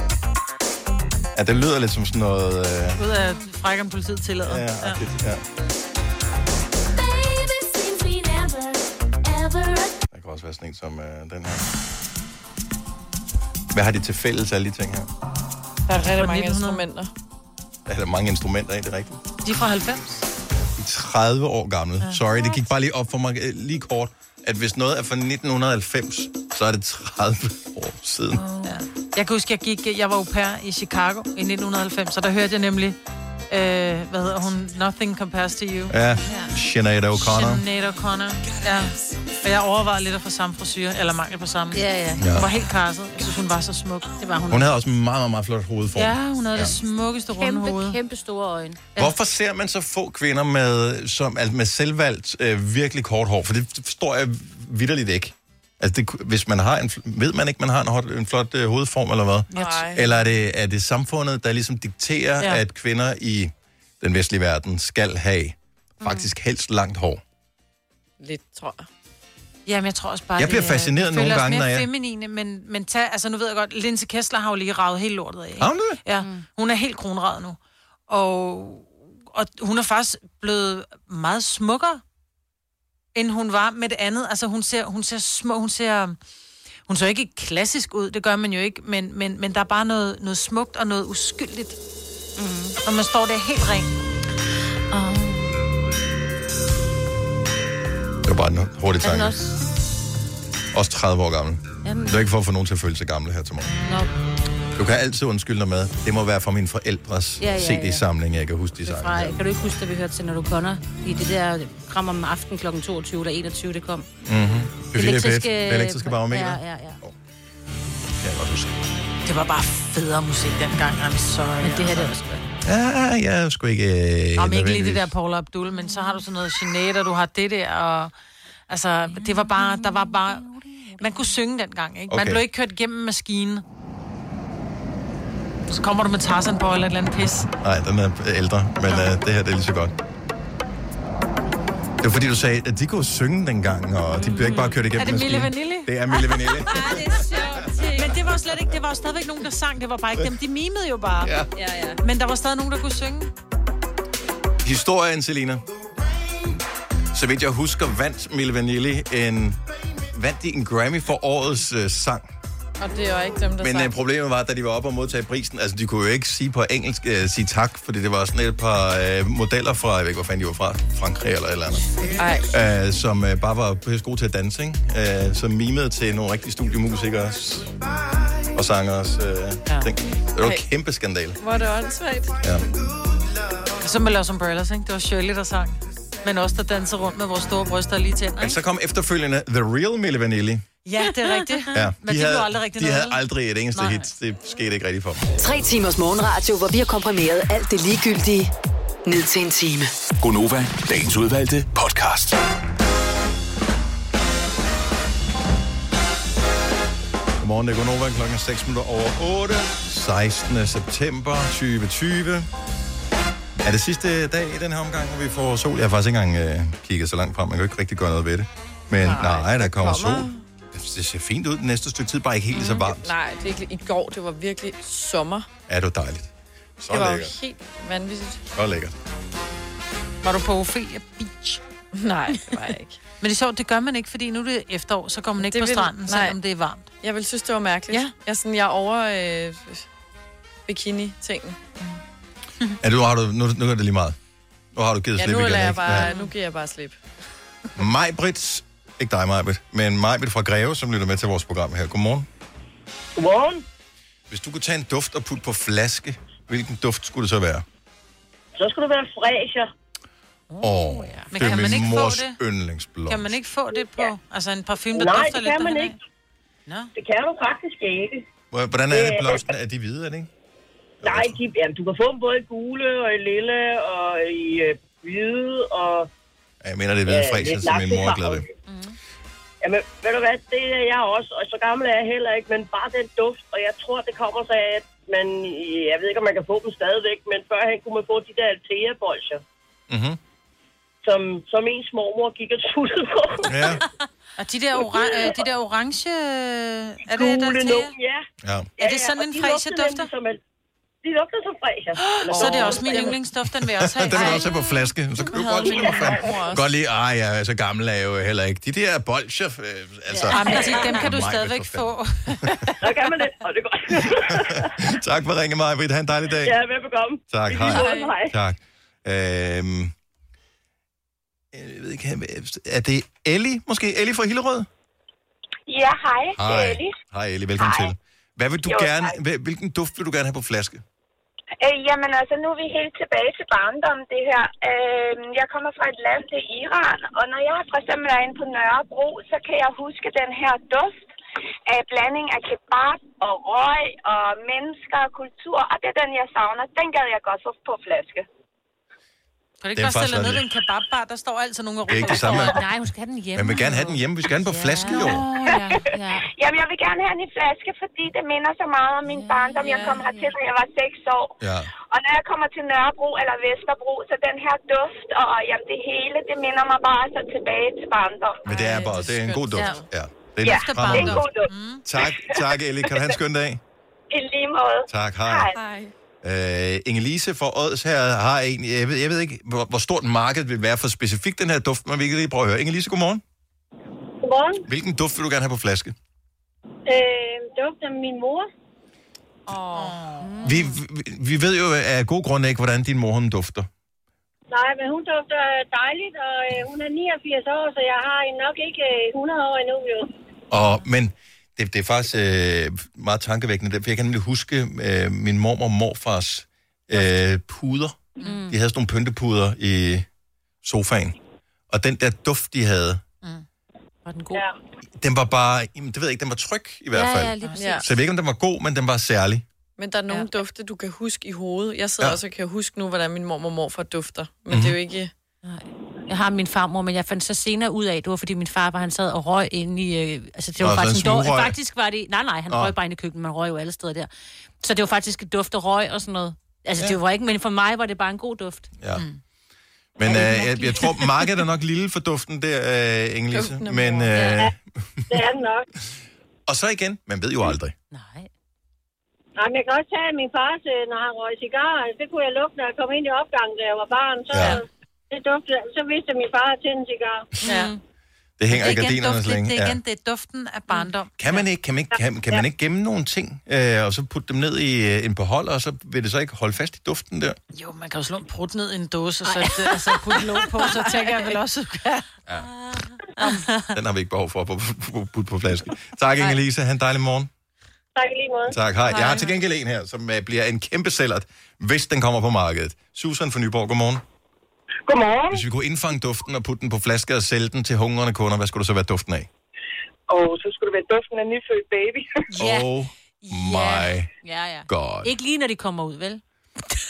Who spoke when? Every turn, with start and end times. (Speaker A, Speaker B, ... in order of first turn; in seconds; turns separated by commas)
Speaker A: 1.4-3.0, Speaker B: 3.0-5.0, Speaker A: 4.4-5.4, Speaker C: 7.5-9.9, Speaker A: 10.1-11.7, Speaker A: 13.7-15.1, Speaker B: 15.9-16.8, Speaker D: 15.9-17.1, Speaker A: 17.9-19.2, Speaker B: 19.4-20.3, Speaker A: 20.8-28.4, Speaker B: 22.0-22.5, Speaker E: 28.4-28.8, Speaker B: 28.6-33.0, Speaker B: 33.5-36.1, Speaker A: 35.9-37.6, Speaker E: 36.2-36.6, Speaker B: 37.1-44.7, Speaker E: 41.7-42.2, Speaker A: 42.2-42.5, Speaker E: 44.2-44.6, Speaker A: 44.5-46.8, Speaker B: 46.0-48.0, Speaker E: 47.4-49.1, Speaker A: 49.0-67.2, Speaker D: 59.5-60.0, Speaker B: 59.5-59.9, Speaker E: 66.0-66.3, Speaker D: 68.2-68.9, Speaker B: 69.7-77.6, Speaker A: 70.4-71.9, Speaker A: 75.6-76.0, Speaker E: 76.2-76.4, Speaker B: 78.1-82.0, Speaker B: 83.2-86.2, Speaker B: 86.9-91.8, Speaker E: 92.4-92.8, Speaker B: 92.8-93.9, Speaker E: 94.9-95.6, Speaker A: 98.2-99.4, Speaker E: 99.0-99.6, Speaker A: 100.7-103.8, Speaker E: 101.8-102.2, Speaker E: 103.7-104.1, Speaker A: 104.8-109.4, Speaker E: 107.4-108.0, Speaker E: 108.8-114.1, Speaker A: 114.2-117.1, Speaker E: 114.9-117.0, Speaker A: 118.2-118.8, Speaker B: 119.2-122.2, Speaker E: 121.6-122.5, Speaker A: 122.6-125.1, Speaker B: 124.4-128.1, Speaker E: 125.8-126.2, Speaker B: 128.7-130.5, Speaker E: 129.1-131.4, Speaker B: 131.0-133.6, Speaker A: 132.1-132.4, Speaker B: 135.7-137.5, Speaker A: 137.6-139.9, Speaker A: 142.0-147.6, Speaker E: 144.1-144.9, Speaker B: 144.9-146.8, Speaker E: 146.6-148.2, Speaker B: 147.9-151.3, Speaker A: 151.2-151.5, Speaker E: 151.6-152.0, Speaker B: 152.0-153.3, Speaker A: 154.6-155.6, Speaker A: 157.1-159.6, Speaker A: 160.1-162.3, Speaker D: 162.8-163.9, Speaker A: 163.6-177.8, Speaker D: 172.2-172.5, Speaker A: 178.5-181.4, Speaker D: 180.4-180.7, Speaker D: 181.4-182.4, Speaker A: 182.4-182.7, Speaker B: 183.8-188.6, Speaker A: 188.4-190.7, Speaker B: 190.8-193.2, Speaker E: 191.2-191.7, Speaker A: 191.7-195.3, Speaker B: 193.8-194.1, Speaker F: 195.4-198.5, Speaker F: 199.1-199.9, Speaker G: 200.2-202.4, Speaker A: 207.4-212.5, Speaker A: 213.6-223.1, Speaker D: 219.0-220.4, Speaker E: 222.6-222.8, Speaker D: 222.8-225.5, Speaker A: 225.7-227.3, Speaker D: 226.9-228.4, Speaker A: 228.6-228.9, Speaker B: 230.2-231.6, Speaker D: 231.9-233.0, Speaker B: 233.2-236.9, Speaker D: 235.4-236.4, Speaker D: 237.0-239.9, Speaker D: 240.7-241.6, Speaker A: 242.8-244.2, Speaker A: 244.7-246.1, Speaker D: 245.2-247.0, Speaker A: 247.8-252.3, Speaker H: 253.2-253.6, Speaker A: 254.3-257.6, Speaker H: 258.6-259.7, Speaker E: 260.5-261.6, Speaker A: 260.6-263.4, Speaker B: 261.3-262.4, Speaker B: 263.1-266.0, Speaker H: 264.9-266.0, Speaker B: 266.7-266.9, Speaker H: 267.0-268.3, Speaker A: 268.5-270.3, Speaker H: 268.9-269.5, Speaker A: 271.0-271.4, Speaker H: 271.0-276.1, Speaker A: 276.6-278.5, Speaker H: 277.1-278.5, Speaker E: 278.7-278.9, Speaker H: 279.6-289.4, Speaker A: 289.9-290.2, Speaker H: 291.0-293.8, Speaker A: 293.5-293.8, Speaker B: 294.4-297.9, Speaker H: 294.8-295.4, Speaker H: 297.1-298.2, Speaker A: 298.4-298.7, Speaker H: 298.8-300.4, Speaker B: 298.8-300.1, Speaker H: 301.0-303.2, Speaker B: 302.0-304.5, Speaker D: 302.3-303.2, Speaker A: 303.8-312.0, Speaker D: 304.1-304.4, Speaker D: 305.3-306.6, Speaker E: 310.1-311.1, Speaker B: 310.3-312.7, Speaker H: 312.8-314.7, Speaker A: 313.9-316.6, Speaker H: 316.4-318.4, Speaker A: 317.3-319.9, Speaker D: 317.7-318.1, Speaker A: 321.5-324.7, Speaker I: 325.7-326.9, Speaker A: 326.4-330.8, Speaker I: 327.6-327.9, Speaker I: 328.7-329.1, Speaker I: 331.6-341.0, Speaker I: 341.7-348.2, Speaker B: 349.6-352.6, Speaker A: 349.8-350.4, Speaker A: 351.9-352.6, Speaker E: 352.1-356.3, Speaker A: 353.4-355.3, Speaker B: 354.9-355.8, Speaker I: 356.3-361.3, Speaker E: 359.0-360.4, Speaker A: 361.4-361.7, Speaker I: 361.9-368.4, Speaker A: 368.4-371.3, Speaker D: 368.5-369.9, Speaker B: 368.5-369.8, Speaker I: 370.4-371.4, Speaker B: 370.4-371.9, Speaker A: 371.9-373.6, Speaker I: 374.1-375.5, Speaker A: 374.9-375.5, Speaker D: 375.5-375.9, Speaker A: 376.2-383.2, Speaker J: 384.2-384.6, Speaker A: 384.7-385.9, Speaker J: 386.9-388.5, Speaker D: 389.5-390.1, Speaker B: 389.7-390.4, Speaker E: 390.2-390.7, Speaker A: 390.4-393.7, Speaker J: 394.5-400.1, Speaker A: 400.5-410.1, Speaker E: 408.2-408.6, Speaker A: 410.6-411.1, Speaker A: 411.7-413.0, Speaker E: 414.1-414.4, Speaker A: 415.0-419.4, Speaker E: 416.9-417.9, Speaker D: 417.6-417.8, Speaker D: 419.8-425.1, Speaker A: 424.5-424.8, Speaker E: 425.4-438.7, Speaker A: 430.6-431.6, Speaker A: 438.8-439.1, Speaker A: 440.0-445.0, Speaker E: 440.0-441.1, Speaker D: 443.3-444.1, Speaker E: 444.1-444.5, Speaker J: 445.1-445.7, Speaker A: 446.5-447.8, Speaker E: 447.9-448.3, Speaker J: 449.4-457.3, Speaker A: 454.3-454.6, Speaker E: 457.4-457.8, Speaker B: 457.4-457.8, Speaker A: 458.4-459.8, Speaker B: 458.5-461.4, Speaker A: 461.2-467.4, Speaker B: 467.5-472.1, Speaker B: 473.2-473.5, Speaker E: 473.2-473.5, Speaker A: 473.7-477.3, Speaker J: 477.9-478.6, Speaker A: 478.5-484.0, Speaker K: 484.9-485.4, Speaker A: 485.3-489.3, Speaker K: 490.1-492.2, Speaker E: 492.4-492.7, Speaker A: 492.4-494.1, Speaker E: 493.4-496.2, Speaker A: 494.7-495.1